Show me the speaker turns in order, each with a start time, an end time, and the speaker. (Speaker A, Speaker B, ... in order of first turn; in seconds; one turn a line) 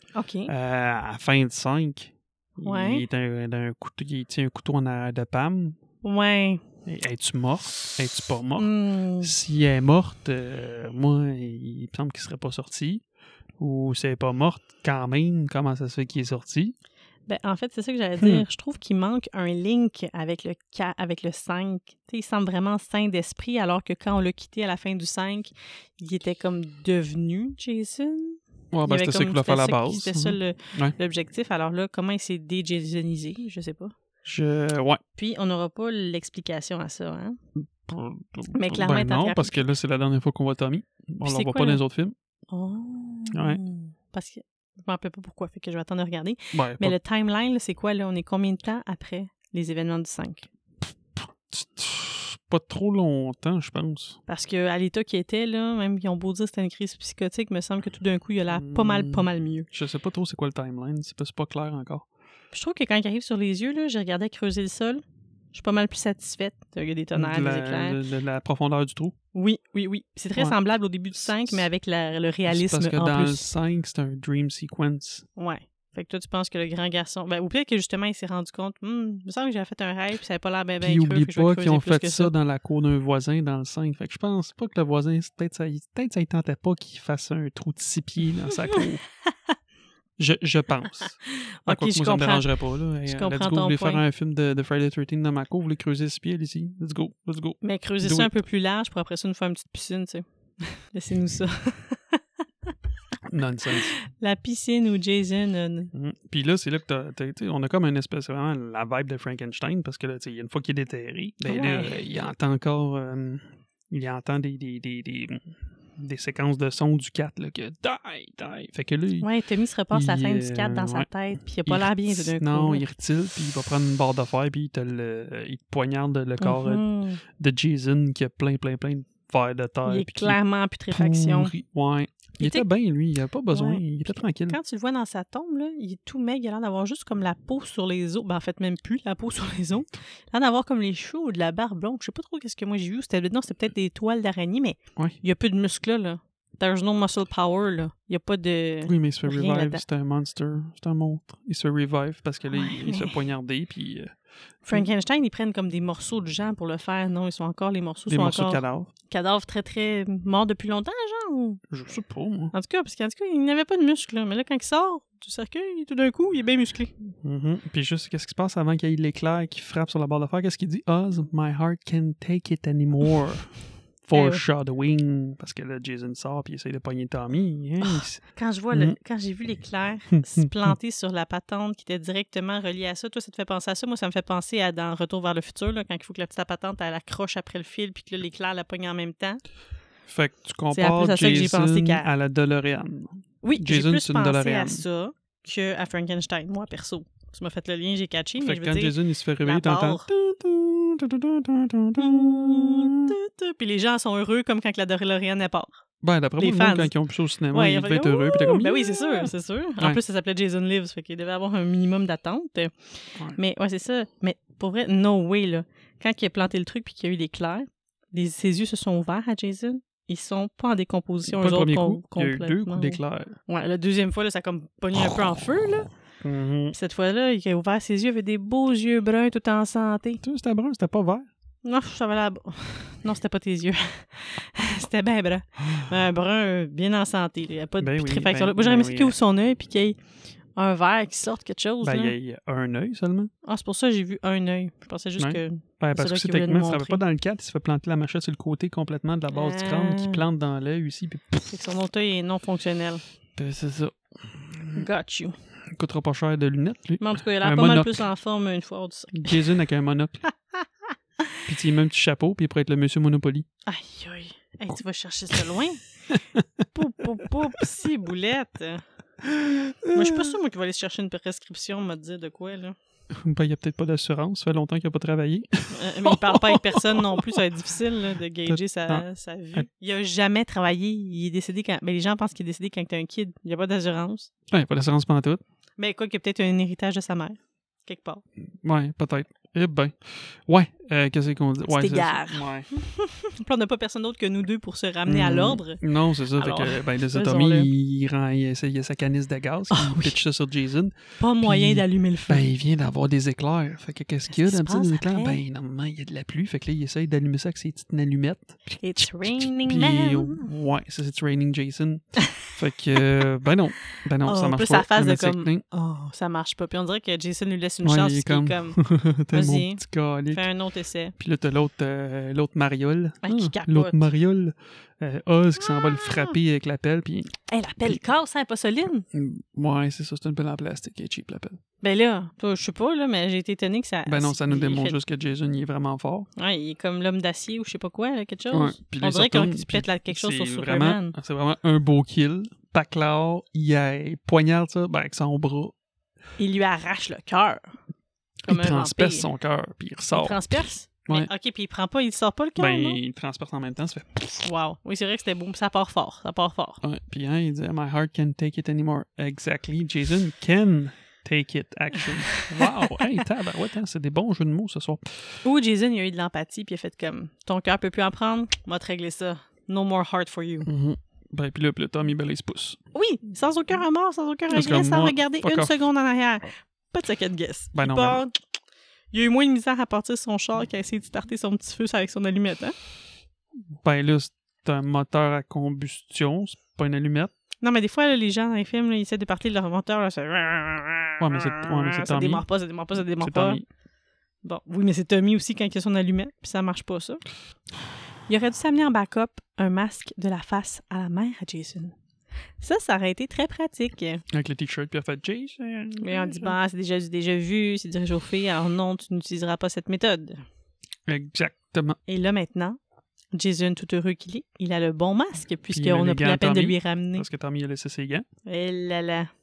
Speaker A: 0.1-0.5
Speaker B: 0.5-5.8
Speaker A: 2.6-3.0
Speaker A: 6.0-6.6
Speaker B: 6.8-13.0
Speaker A: 8.6-9.3
Speaker B: 13.6-16.7
Speaker A: 17.3-33.9
Speaker B: 18.2-18.4
Speaker B: 28.7-30.9
Speaker B: 34.2-35.0
Speaker A: 35.1-37.4
Speaker B: 37.5-42.1
Speaker A: 38.5-39.6
Speaker A: 41.2-41.8
Speaker A: 42.5-50.5
Speaker B: 43.3-43.6
Speaker B: 46.5-47.0
Speaker B: 51.1-54.2
Speaker A: 54.3-59.7
Speaker B: 58.5-62.0
Speaker A: 62.5-68.0
Speaker B: 67.1-69.1
Speaker A: 69.3-73.5
Speaker B: 70.3-70.6
Speaker B: 71.1-71.7
Speaker B: 72.5-75.2
Speaker A: 75.4-82.3
Speaker B: 80.8-89.0
Speaker B: 90.2-98.3
Speaker A: 91.3-92.5
Speaker A: 93.0-94.0
Speaker A: 97.6-102.7
Speaker B: 103.2-103.9
Speaker A: 103.7-105.9
Speaker B: 105.9-119.3
Speaker A: 111.5-112.0
Speaker A: 119.2-122.8
Speaker B: 119.9-121.1
Speaker B: 121.6-130.4
Speaker A: 126.4-127.2
Speaker A: 129.8-131.5
Speaker B: 130.9-134.6
Speaker A: 132.4-132.7
Speaker A: 133.5-133.8
Speaker A: 134.5-149.8
Speaker B: 148.8-154.1
Speaker A: 152.5-153.2
Speaker A: 154.7-161.6
Speaker B: 158.1-158.9
Speaker B: 161.7-162.5
Speaker A: 162.5-166.9
Speaker B: 167.2-178.9
Speaker A: 174.1-174.4
Speaker A: 177.8-189.4
Speaker B: 180.2-180.8
Speaker B: 190.1-194.8
Speaker A: 190.7-192.1
Speaker A: 193.4-200.1
Speaker B: 198.4-203.2
Speaker A: 202.0-205.8
Speaker B: 206.0-210.0
Speaker A: 206.4-206.9
Speaker A: 207.5-225.9
Speaker B: 221.3-223.3
Speaker B: 226.2-226.7
Speaker A: 226.7-230.2
Speaker B: 230.2-231.2
Speaker A: 231.6-240.0
Speaker B: 237.8-239.2
Speaker A: 240.5-242.1
Speaker B: 241.8-243.3
Speaker A: 243.4-247.0
Speaker B: 245.2-251.6
Speaker A: 249.3-250.2
Speaker A: 251.5-253.0
Speaker B: 253.3-254.8
Speaker A: 254.7-255.4
Speaker B: 255.7-258.0
Speaker A: 257.0-259.4
Speaker B: 259.1-260.2
Speaker A: 260.5-261.4
Speaker B: 261.5-263.4
Speaker A: 263.6-265.9
Speaker B: 266.1-266.6
Speaker A: 266.7-268.8
Speaker B: 267.2-267.7
Speaker B: 269.2-270.3
Speaker A: 269.9-272.8
Speaker B: 273.1-277.4
Speaker A: 275.7-284.3
Speaker B: 278.4-279.6
Speaker B: 284.5-285.4
Speaker A: 285.8-288.2
Speaker B: 288.6-292.7
Speaker A: 291.7-295.8
Speaker B: 295.1-315.6
Speaker A: 296.3-297.7
Speaker A: 299.7-300.2
Speaker A: 301.2-302.5
Speaker A: 304.3-305.4
Speaker A: 308.7-310.5
Speaker A: 312.2-312.5
Speaker A: 314.2-318.8
Speaker B: 317.8-320.4
Speaker A: 319.3-321.1
Speaker B: 321.2-328.0
Speaker A: 323.2-324.1
Speaker A: 325.6-326.4
Speaker A: 327.5-329.1
Speaker B: 329.1-331.6
Speaker A: 331.8-335.0
Speaker B: 334.1-336.3
Speaker A: 336.4-341.1
Speaker B: 338.5-345.7
Speaker A: 346.4-347.7
Speaker A: 348.4-349.2
Speaker B: 348.5-351.3
Speaker A: 350.1-353.0
Speaker B: 352.6-354.4
Speaker A: 354.4-356.8
Speaker B: 356.8-365.4
Speaker A: 362.4-363.0
Speaker A: 365.4-370.7
Speaker B: 370.6-372.8
Speaker A: 372.9-378.3
Speaker B: 374.5-375.7
Speaker B: 377.7-378.2
Speaker A: 379.1-382.7
Speaker B: 383.8-387.3
Speaker A: 387.6-393.6
Speaker B: 391.2-392.4
Speaker B: 393.1-393.6
Speaker A: 394.4-397.2
Speaker A: 398.3-401.9
Speaker A: 402.6-404.2
Speaker B: 404.3-406.6
Speaker A: 406.0-410.4
Speaker B: 411.1-412.0
Speaker A: 412.1-412.8
Speaker A: 413.3-417.2
Speaker B: 415.7-418.2
Speaker A: 418.4-419.3